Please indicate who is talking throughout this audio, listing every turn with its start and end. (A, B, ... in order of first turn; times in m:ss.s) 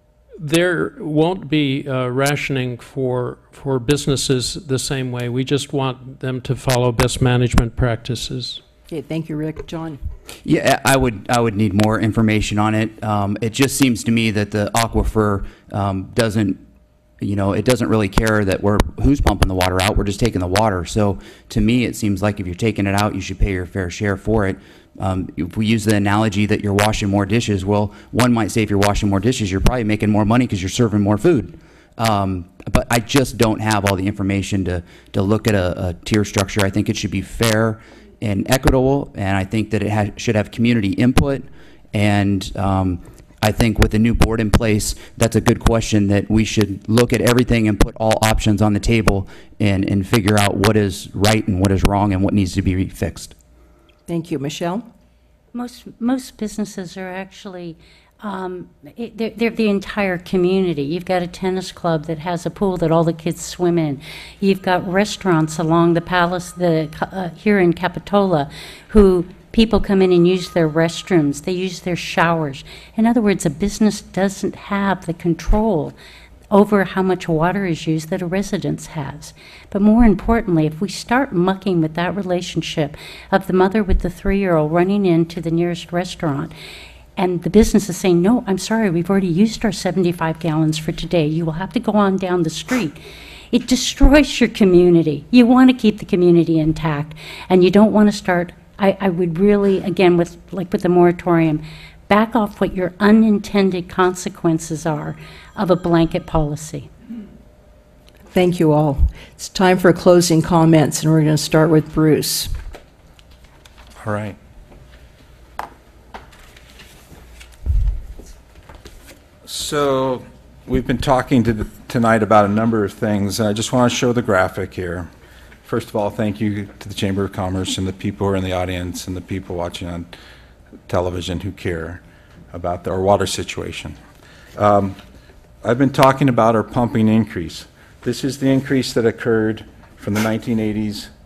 0:00.4-0:08.6 A
0:08.9-0:10.0 B
0:10.4-0:16.6 C
0:17.2-0:53.4 C
0:54.1-0:54.9 B
0:55.5-1:16.0 D
1:16.5-1:26.5 D
1:27.2-1:33.0 D
1:33.5-1:46.9 D
1:48.3-1:52.6 B
1:54.0-1:54.4 E
1:59.4-2:05.1 E
2:05.6-2:10.2 E
2:10.9-2:14.0 E
2:14.6-2:15.0 E
2:15.6-2:21.1 E